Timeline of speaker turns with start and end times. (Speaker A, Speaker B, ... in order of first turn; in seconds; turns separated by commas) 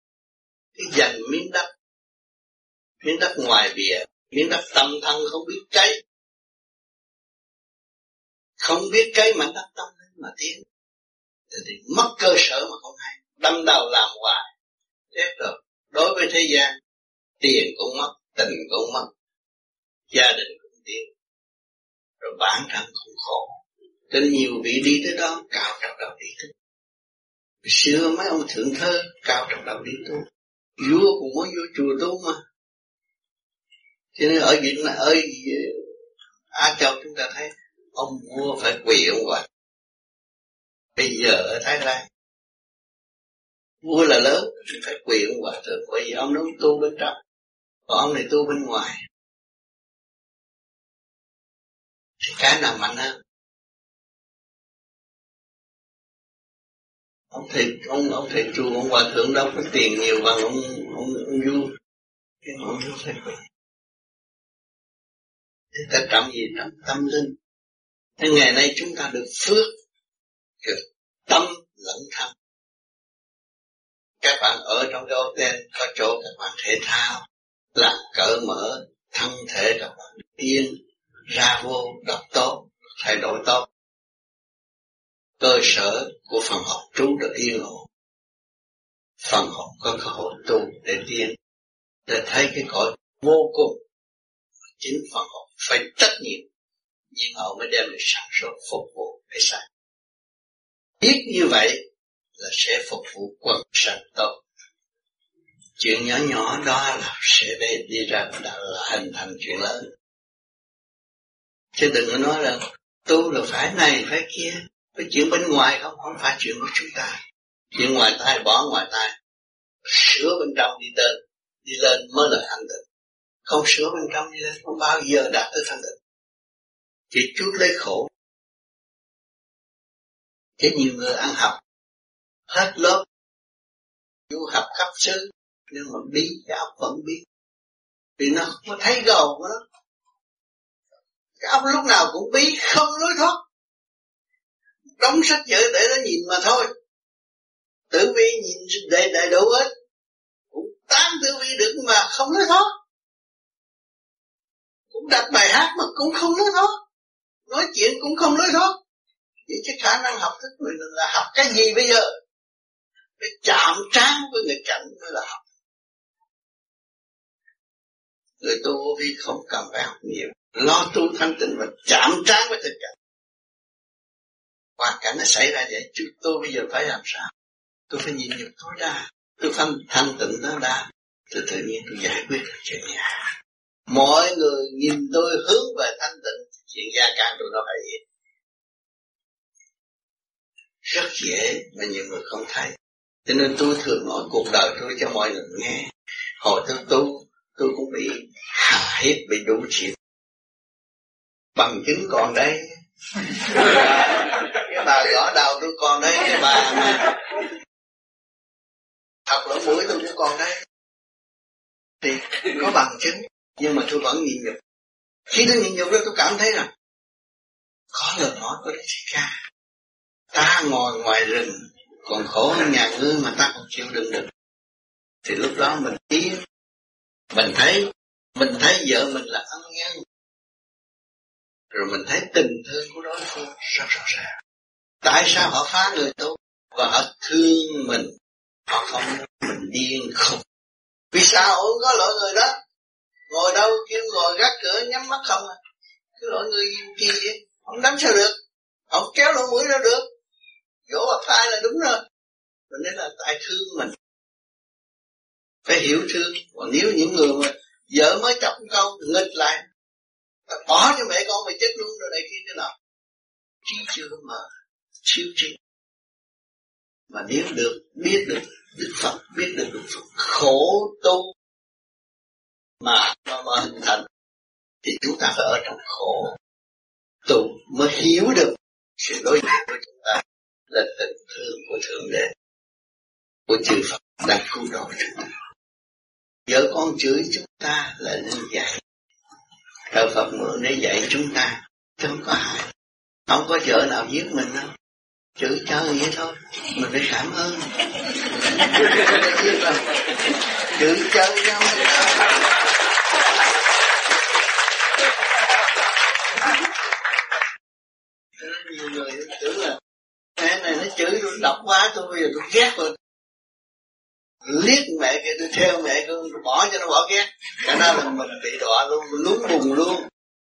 Speaker A: 0.7-1.7, Speaker A: 3.0-5.9, Speaker A: 8.6-10.6, Speaker A: 11.5-14.4, Speaker A: 15.1-16.7, Speaker A: 17.4-19.1, Speaker A: 20.1-21.1, Speaker A: 22.2-23.5, Speaker A: 24.1-26.5, Speaker A: 27.6-30.2, Speaker A: 30.8-32.4, Speaker A: 34.1-35.7, Speaker A: 36.5-39.4, Speaker A: 41.0-42.0, Speaker A: 43.8-47.1, Speaker A: 47.9-49.0, Speaker A: 52.2-53.1, Speaker A: 57.3-61.7, Speaker A: 62.4-63.4, Speaker A: 65.7-67.3, Speaker A: 68.2-69.7, Speaker A: 70.6-72.3, Speaker A: 74.2-77.2, Speaker A: 77.8-80.8, Speaker A: 81.3-83.7, Speaker A: 85.4-87.8, Speaker A: 89.2-91.3, Speaker A: 92.1-93.8, Speaker A: 94.8-96.4, Speaker A: 97.1-99.6, Speaker A: 101.0-101.8, Speaker A: 102.4-104.3, Speaker A: 105.8-109.8, Speaker A: 111.7-117.2, Speaker A: 117.7-119.1, Speaker A: 119.8-122.8, Speaker A: 123.5-125.9, Speaker A: 127.1-128.1, Speaker A: 130.6-131.6, Speaker A: 132.5-133.0, Speaker A: 134.3-137.2, Speaker A: 138.2-139.6, Speaker A: 141.4-143.4, Speaker A: 145.0-146.7, Speaker A: 147.9-149.7, Speaker A: 150.5-152.7, Speaker A: 154.9-156.8, Speaker A: 157.5-158.8, Speaker A: 159.5-162.1, Speaker A: 163.2-165.4, Speaker A: 168.4-172.9, Speaker A: 174.8-177.3, Speaker A: 177.9-183.1, Speaker A: 183.9-188.0, Speaker A: 190.8-192.7, Speaker A: 193.2-195.9, Speaker A: 196.4-199.9, Speaker A: 201.6-202.7, Speaker A: 203.2-207.1, Speaker A: 209.3-210.6, Speaker A: 212.0-214.6, Speaker A: 215.3-216.7, Speaker A: 217.9-219.3, Speaker A: 220.3-224.3, Speaker A: 225.2-226.3, Speaker A: 227.3-230.0, Speaker A: 231.7-234.3, Speaker A: 235.0-238.1, Speaker A: 238.7-240.4, Speaker A: 241.1-242.5, Speaker A: 243.3-245.5, Speaker A: 246.2-248.4, Speaker A: 248.9-250.1, Speaker A: 250.9-252.0, Speaker A: 252.7-253.9, Speaker A: 255.7-259.6, Speaker A: 260.5-262.7, Speaker A: 263.6-264.4, Speaker A: 265.0-265.6, Speaker A: 267.1-271.2, Speaker A: 272.8-274.0, Speaker A: 274.8-276.3, Speaker A: 277.2-282.3, Speaker A: 283.5-285.4, Speaker A: 286.5-288.8, Speaker A: 289.9-292.6, Speaker A: 293.3-294.7, Speaker A: 295.4-297.9, Speaker A: 298.4-300.1, Speaker A: 300.6-302.3, Speaker A: 308.4-309.8, Speaker A: 310.4-312.9, Speaker A: 314.4-320.0